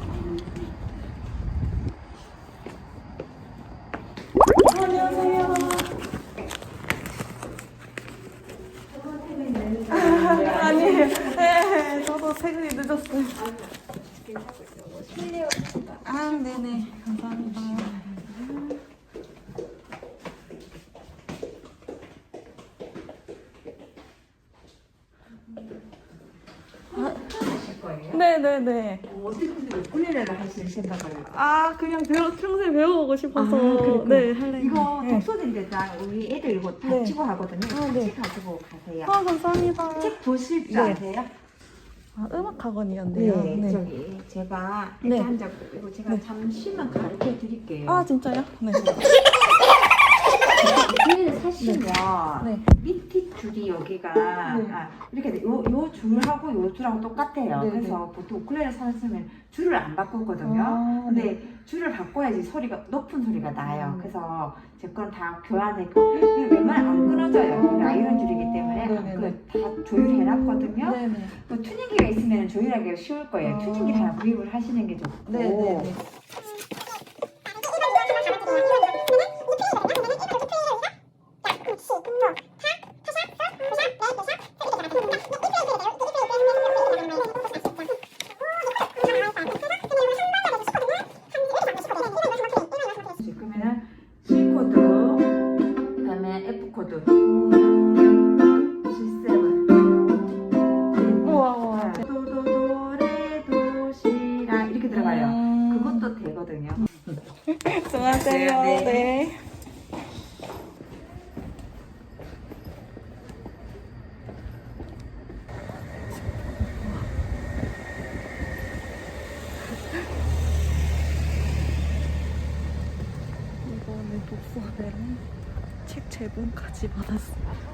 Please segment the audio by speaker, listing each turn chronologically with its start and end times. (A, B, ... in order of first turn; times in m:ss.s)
0:04.6-0:05.9 A
0:04.9-0:05.8 B
0:08.9-0:11.4 B
0:09.9-0:13.4 A
0:13.4-0:17.0 B
0:16.0-0:18.1 A
0:17.6-0:18.8 B
0:26.9-0:28.2 B
0:28.1-0:29.1 A
0:29.1-0:31.4 B
0:31.2-0:35.2 A
0:33.3-0:39.2 B
0:36.8-0:37.2 A
0:37.7-0:38.1 A
0:39.0-0:41.0 A
0:39.9-0:41.3 B
0:42.1-0:43.8 A
0:43.1-0:48.0 B
0:45.0-0:45.3 A
0:47.8-0:49.0 A
0:48.7-0:49.2 B
0:50.6-1:15.9 B
0:51.6-0:51.9 A
0:52.4-0:52.6 A
0:54.4-0:54.8 A
0:57.6-0:58.0 A
1:00.4-1:01.3 A
1:03.6-1:04.1 A
1:08.8-1:09.4 A
1:10.6-1:11.3 A
1:13.4-1:14.2 A
1:15.2-1:16.0 A
1:33.1-1:35.3 B
1:36.0-1:37.1 B
1:37.2-1:38.5 A
1:38.8-1:39.7 B
1:40.9-1:46.9 B
1:41.2-1:42.0 A
1:44.9-1:46.1 A
1:47.4-1:49.4 A
1:48.0-1:49.1 B
1:56.8-1:57.1 A
2:03.6-2:05.2 A
2:05.8-2:07.5 A